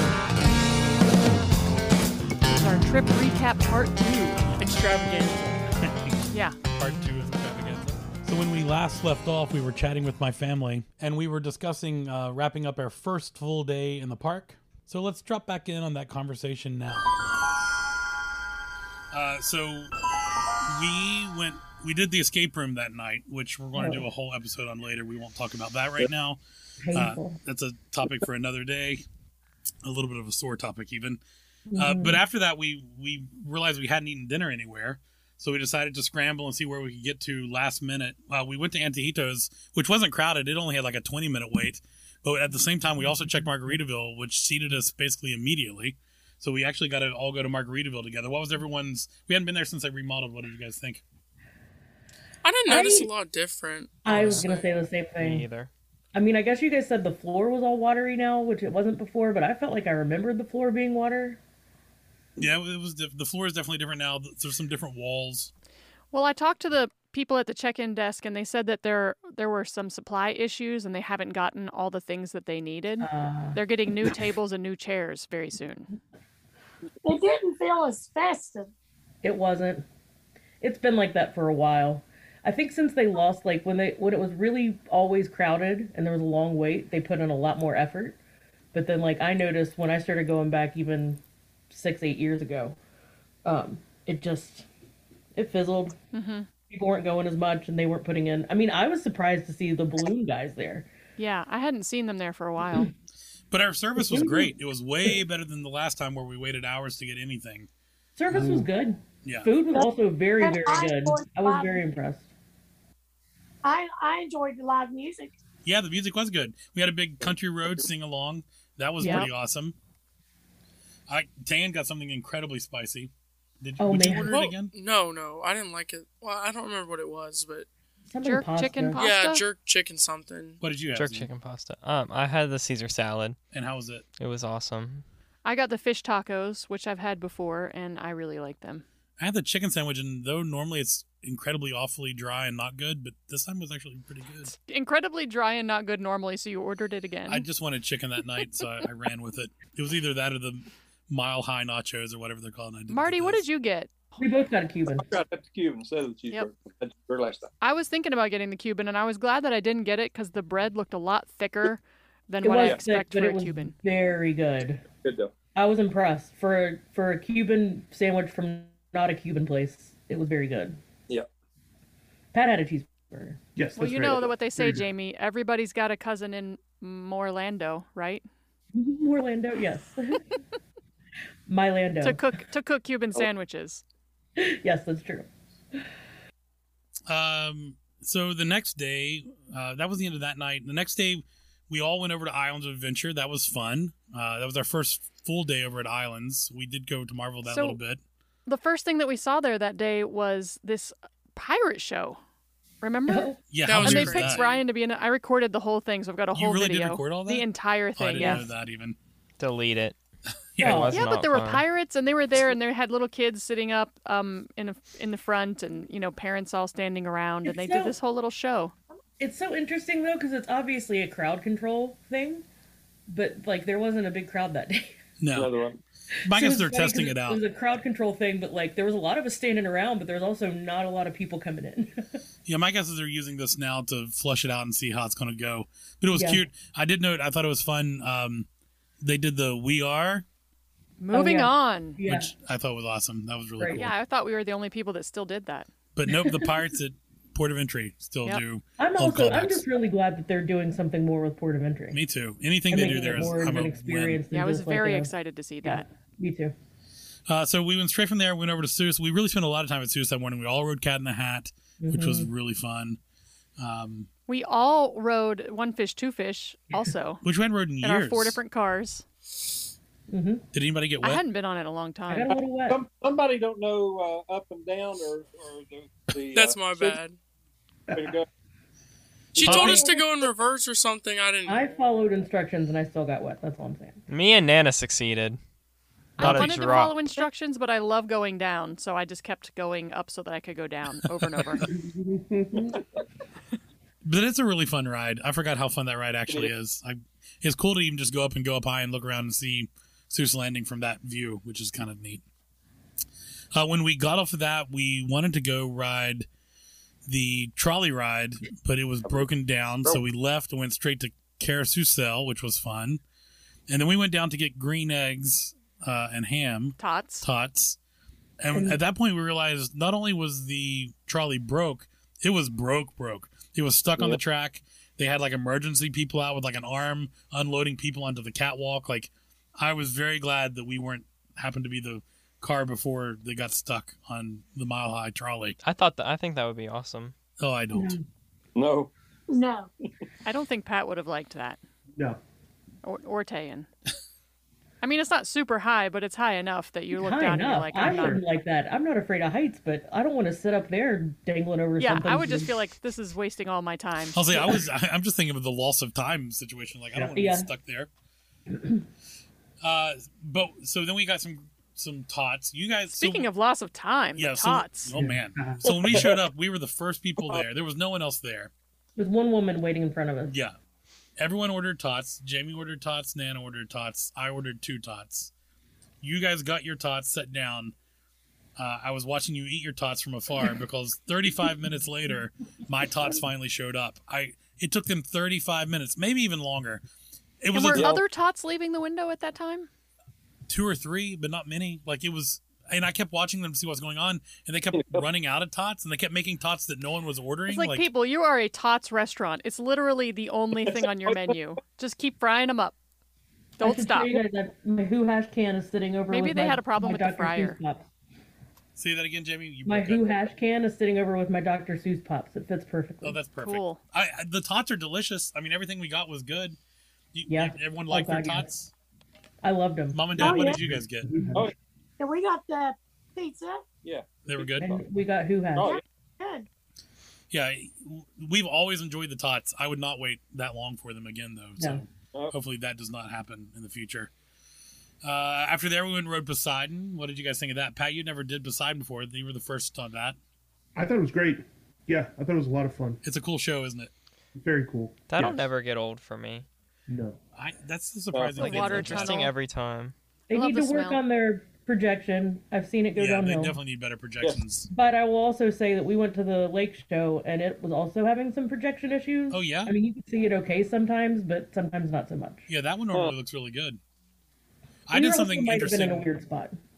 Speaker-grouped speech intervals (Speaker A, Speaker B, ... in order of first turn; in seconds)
Speaker A: 2.4-4.5, 6.3-6.6, 66.1-75.9, 96.1-96.5, 101.2-102.9, 119.0-119.3, 128.2-129.4, 135.4-138.8, 144.5-147.4, 152.9-154.2, 157.6-163.7, 173.8-178.2, 182.0-183.8, 197.4-197.8, 198.4-202.2, 202.8-208.4, 210.9-218.7, 241.0-242.0, 243.7-245.7, 254.3-255.8, 264.3-267.2, 267.8-269.0, 271.0-272.3, 286.2-291.7, 316.8-317.2, 340.2-341.6, 342.8-343.7, 344.8-348.2, 351.8-354.2, 362.9-364.9, 387.5-389.7, 397.5-402.7, 403.6-404.2, 406.1-407.6, 413.4-413.8, 448.4-449.3, 450.3-451.0
Speaker B: 4.6-5.6, 52.4-54.4, 124.2-127.7, 128.9-130.6, 203.6-204.6, 276.3-277.2, 279.3-281.8
Speaker C: 5.8-6.2, 6.7-17.1, 19.1-19.9, 20.6-26.4, 26.9-29.0, 29.8-31.2, 31.8-51.0, 62.4-65.5, 103.5-107.7, 109.2-109.5, 115.6-119.8, 121.1-124.7, 130.6-131.3, 133.5-134.0, 139.2-144.5, 147.3-153.4, 187.1-198.0, 203.5-204.4, 206.3-209.0, 210.5-211.0, 225.2-225.5, 226.2-227.4, 232.4-238.5, 239.0-240.2, 242.0-243.9, 245.9-249.6, 251.9-254.2, 257.3-263.0, 263.6-264.1, 267.2-268.4, 270.5-271.2, 279.4-279.8, 294.0-302.2, 303.5-306.3, 307.1-313.0, 313.7-317.8, 318.4-335.6, 337.4-338.0, 354.1-357.9, 359.6-363.3, 364.2-368.5, 370.3-370.5, 371.2-375.3, 376.0-377.7, 378.6-386.8, 387.4-387.9, 390.5-397.8, 408.8-410.1, 413.0-416.6, 417.1-418.7, 419.9-421.1, 424.2-424.7, 427.3-434.1, 435.0-440.2, 443.0-443.9, 447.4-449.2, 452.9-454.7, 459.3-459.7, 462.5-463.8, 464.9-466.1
Speaker D: 23.7-24.0, 26.8-27.4, 31.7-32.2, 52.7-53.1, 54.0-55.4, 56.1-61.4, 73.0-73.6, 79.2-79.8, 80.6-88.2, 88.7-92.8, 93.4-94.7, 95.3-95.9, 96.7-100.9, 104.0-104.5, 108.2-112.3, 119.0-119.3, 123.8-124.3, 128.1-129.1, 154.2-155.1, 162.4-164.8, 165.5-170.8, 172.3-173.4, 178.7-180.2, 181.5-182.2, 184.4-185.3, 203.1-203.4, 208.2-208.5, 210.6-211.0, 217.4-217.9, 219.2-222.4, 223.1-224.9, 226.2-232.1, 236.1-236.4, 241.1-242.3, 243.6-243.9, 248.8-252.0, 252.7-255.1, 255.6-256.5, 261.8-262.3, 270.1-270.4, 272.1-272.8, 281.4-284.0, 286.2-287.2, 318.5-318.8, 337.7-338.0, 346.9-352.5, 357.0-357.5, 358.5-358.8, 368.9-370.3, 403.6-407.9, 409.6-413.2, 417.3-418.5, 419.4-420.5, 424.6-425.8, 431.6-431.8, 450.3-453.6, 454.7-462.5, 464.9-466.6
Speaker E: 54.1-54.5, 55.2-55.7, 130.9-133.4, 134.2-135.0, 209.4-209.9, 210.6-211.6, 284.1-285.4, 286.2-287.0, 335.6-337.1, 445.1-446.4, 448.4-449.9
Speaker F: 77.0-78.7, 110.4-111.9, 113.6-115.3, 339.3-339.7, 420.2-420.6, 422.0-423.6, 425.6-426.5
Speaker G: 108.3-108.7, 173.6-174.9, 291.7-292.7, 364.9-366.1, 420.2-421.5, 440.8-443.0, 444.4-445.5, 446.9-447.2
Speaker H: 117.2-117.8, 155.0-157.5, 162.5-162.8, 165.0-165.3, 225.3-225.8, 272.7-276.6, 277.9-278.2, 279.4-279.8, 338.6-338.9, 387.7-388.0, 394.7-395.0, 400.7-401.3, 423.8-424.8, 425.6-425.8, 448.1-448.6